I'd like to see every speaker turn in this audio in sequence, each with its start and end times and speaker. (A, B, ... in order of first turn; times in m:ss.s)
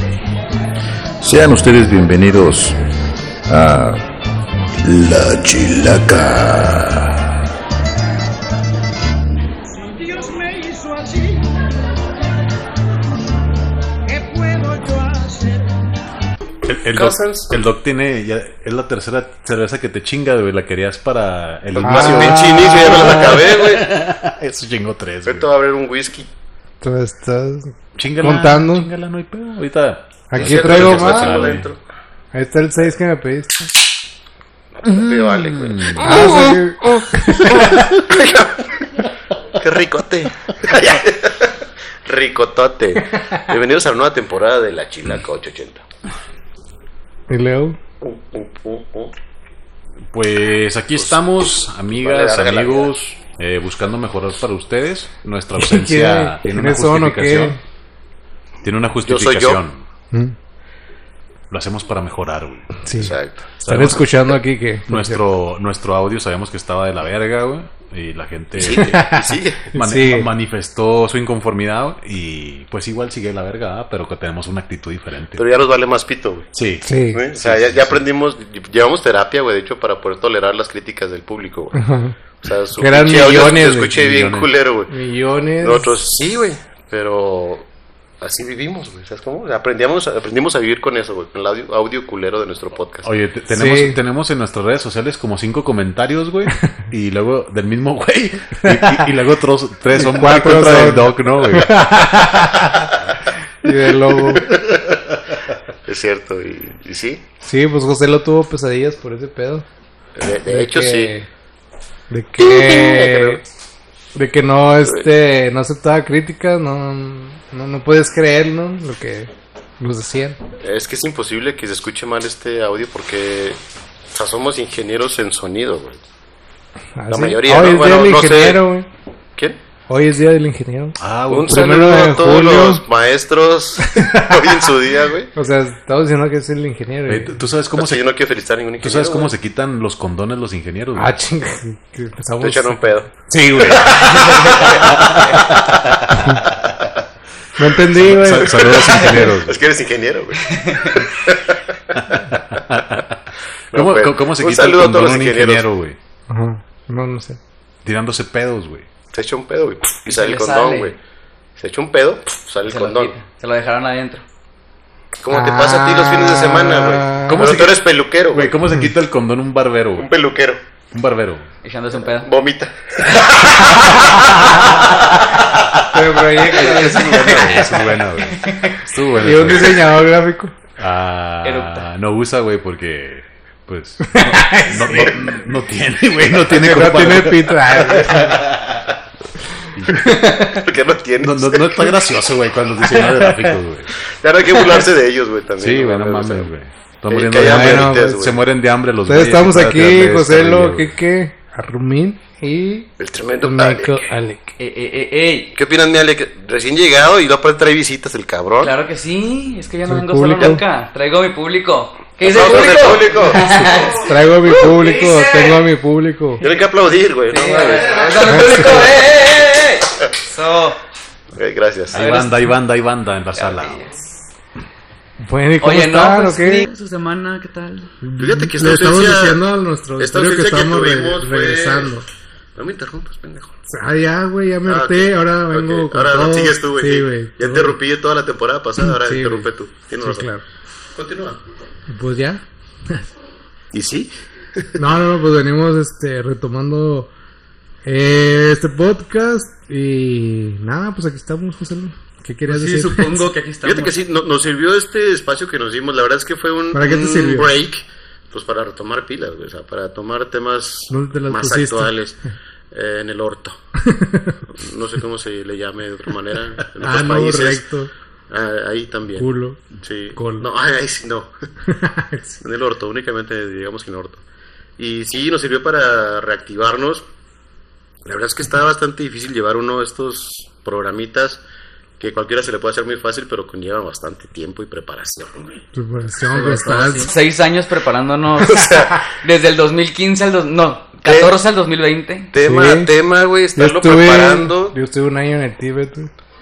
0:01.2-0:02.8 A
0:03.5-0:04.0 A
0:04.8-0:07.3 A
0:10.0-0:11.5 B
0:14.1-0:15.7 B
0:16.6-0:25.5 C
0:16.9-0:17.6 D
0:21.8-0:23.9 D
0:21.8-0:23.3 E
0:25.2-0:26.3 D
0:26.8-0:28.9 E
0:28.0-0:31.7 C
0:30.3-0:31.4 E
0:30.4-0:31.8 D
0:32.3-0:33.5 E
0:34.7-0:36.5 D
0:35.1-0:36.3 C
0:36.0-0:37.7 E
0:37.6-0:38.9 D
0:39.5-0:45.8 D
0:47.3-0:47.8 E
0:48.0-0:49.1 D
0:50.1-0:57.6 C
0:51.9-0:52.9 D
0:55.6-0:57.6 E
0:58.6-0:59.8 C
0:59.0-0:59.6 D
1:01.5-1:02.8 C
1:02.8-1:03.2 E
1:03.0-1:03.5 D
1:03.6-1:04.3 C
1:03.7-1:05.2 E
1:04.9-1:09.1 C
1:08.6-1:09.6 D
1:08.7-1:10.3 E
1:09.7-1:15.4 C
1:15.3-1:16.5 D
1:16.5-1:18.0 C
1:16.8-1:17.2 E
1:17.1-1:21.8 D
1:21.7-1:22.2 E
1:22.4-1:24.9 D
1:22.8-1:23.9 E
1:23.9-1:24.5 C
1:24.9-1:25.9 E
1:25.6-1:27.7 D
1:28.2-1:33.1 D
1:33.0-1:42.4 C
1:33.5-1:34.0 E
1:38.6-1:39.0 E
1:39.9-1:42.9 E
1:43.6-1:44.6 E
1:44.2-1:45.0 D
1:45.8-1:47.2 D
1:47.4-1:49.6 E
1:50.2-1:51.1 D
1:50.4-1:51.3 E
1:52.1-1:53.4 E
1:52.4-1:53.4 D
1:54.1-2:00.4 E
2:00.6-2:03.6 D
2:04.1-2:06.0 D
2:07.0-2:08.9 E
2:07.1-2:08.6 D
2:09.9-2:12.8 E
2:11.0-2:11.7 C
2:11.3-2:15.3 D
2:13.8-2:14.6 E
2:15.3-2:17.4 E
2:17.1-2:18.1 C
2:17.8-2:19.3 D
2:18.8-2:21.2 C
2:21.0-2:22.8 E
2:22.4-2:23.1 D
2:23.3-2:26.5 C
2:23.7-2:25.9 D
2:23.9-2:25.4 F
2:26.1-2:26.4 E
2:27.6-2:29.0 E
2:27.9-2:29.6 C
2:28.4-2:32.3 D
2:30.5-2:31.0 F
2:32.0-2:36.0 C
2:33.7-2:35.7 D
2:36.3-2:37.4 E
2:37.8-2:38.9 C
2:39.1-2:41.0 D
2:40.0-2:40.9 F
2:41.6-2:43.1 D
2:42.6-2:44.2 F
2:45.2-2:48.6 D
2:45.3-2:47.4 E
2:47.3-2:50.1 C
2:50.0-2:50.6 D
2:50.9-2:51.5 C
2:51.6-2:52.3 F
2:52.0-2:55.4 D
2:55.9-2:57.6 E
2:56.5-3:00.0 C
2:56.5-2:57.7 F
2:58.3-2:58.7 F
2:59.2-3:00.5 E
3:00.8-3:09.0 C
3:01.4-3:01.8 F
3:04.0-3:05.3 E
3:06.5-3:08.5 E
3:09.8-3:10.0 C
3:09.8-3:10.6 E
3:10.4-3:12.0 D
3:11.2-3:14.0 C
3:13.0-3:13.5 E
3:14.0-3:16.5 D
3:15.6-3:20.9 C
3:17.1-3:18.4 D
3:17.4-3:18.2 E
3:19.1-3:24.5 E
3:23.0-3:24.1 D
3:24.6-3:25.5 F
3:25.5-3:28.7 D
3:28.6-3:35.6 F
3:29.9-3:30.6 E
3:32.2-3:33.9 D
3:33.9-3:36.4 E
3:36.4-3:39.0 D
3:37.3-3:40.8 F
3:38.3-3:38.7 E
3:41.3-3:42.0 D
3:41.9-3:43.9 C
3:41.9-3:42.5 F
3:43.4-3:44.0 F
3:45.2-3:46.7 E
3:45.6-3:47.9 F
3:48.0-3:52.0 E
3:48.2-3:49.4 D
3:50.0-3:51.9 D
3:52.6-3:53.6 D
3:53.7-3:57.8 E
3:54.6-4:00.3 D
3:58.8-3:59.5 E
4:00.0-4:00.4 E
4:00.9-4:01.4 D
4:01.9-4:03.0 E
4:03.7-4:04.7 D
4:04.8-4:07.1 E
4:07.8-4:13.2 E
4:12.4-4:13.9 F
4:13.6-4:22.2 D
4:16.7-4:17.5 E
4:20.9-4:22.0 E
4:22.7-4:23.6 D
4:23.8-4:24.4 E
4:24.5-4:27.6 D
4:26.8-4:27.9 E
4:28.3-4:31.3 D
4:29.2-4:29.6 E
4:30.1-4:30.5 E
4:31.7-4:32.4 E
4:32.4-4:34.2 D
4:34.8-4:37.0 D
4:38.0-4:41.4 D
4:42.0-4:45.6 D
4:45.7-4:47.1 E
4:46.3-4:52.3 F
4:48.4-4:49.0 D
4:51.0-4:51.4 D
4:52.3-4:54.8 D
4:52.4-4:52.9 E
4:53.5-4:56.1 E